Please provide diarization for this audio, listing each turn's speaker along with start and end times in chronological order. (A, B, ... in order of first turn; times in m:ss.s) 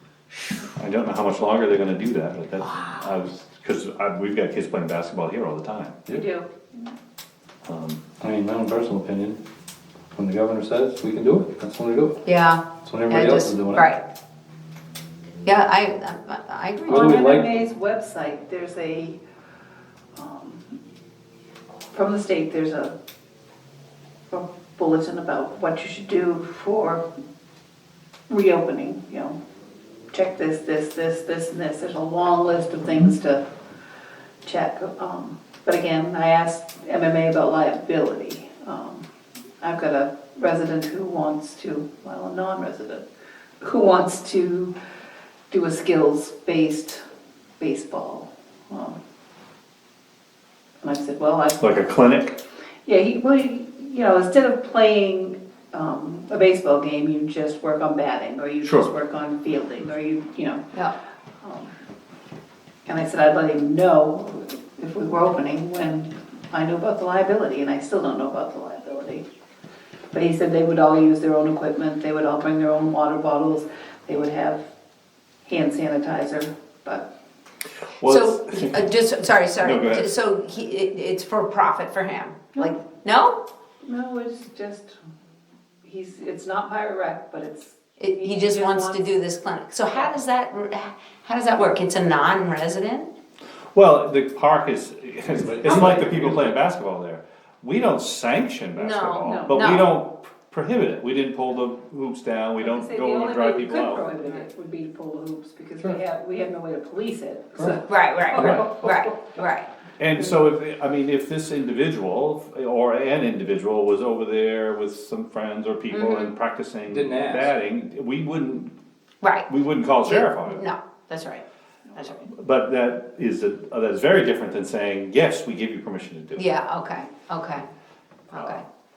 0:00.4-0:00.6 A
0:00.8-0:06.0 B
0:02.6-0:03.1 A
0:06.1-0:06.9 C
0:07.6-0:08.0 B
0:08.2-0:09.4 D
0:10.1-0:12.2 D
0:12.2-0:14.0 A
0:12.8-0:13.9 D
0:15.4-0:17.1 A
0:16.9-0:17.6 D
0:16.9-0:19.2 C
0:20.1-0:20.8 C
0:21.9-0:23.0 C
0:24.3-0:27.0 C
0:28.3-0:29.4 C
0:30.1-0:33.4 C
0:34.4-0:39.0 C
0:39.6-0:43.0 C
0:43.6-0:44.7 C
0:45.5-0:47.0 C
0:47.6-0:49.0 C
0:50.8-0:52.0 C
0:51.6-0:52.4 B
0:52.8-1:00.6 C
0:58.6-0:58.9 B
1:01.4-1:01.7 C
1:02.8-1:09.2 C
1:10.1-1:14.6 C
1:15.4-1:17.1 C
1:18.0-1:18.9 B
1:18.0-1:23.4 A
1:19.6-1:20.1 B
1:23.8-1:25.0 C
1:25.8-1:29.1 C
1:28.0-1:33.1 A
1:33.7-1:44.1 B
1:35.4-1:36.5 D
1:35.6-1:36.0 A
1:38.7-1:39.9 A
1:39.2-1:39.8 C
1:42.6-1:49.1 C
1:47.8-1:49.7 A
1:48.3-1:48.9 B
1:50.0-1:58.7 B
1:55.9-1:56.3 A
1:56.8-1:57.5 D
1:59.2-1:59.5 A
1:59.5-2:00.6 B
2:00.0-2:01.4 A
2:01.9-2:02.3 A
2:02.2-2:06.4 B
2:06.4-2:07.6 A
2:08.3-2:08.6 A
2:08.3-2:08.6 B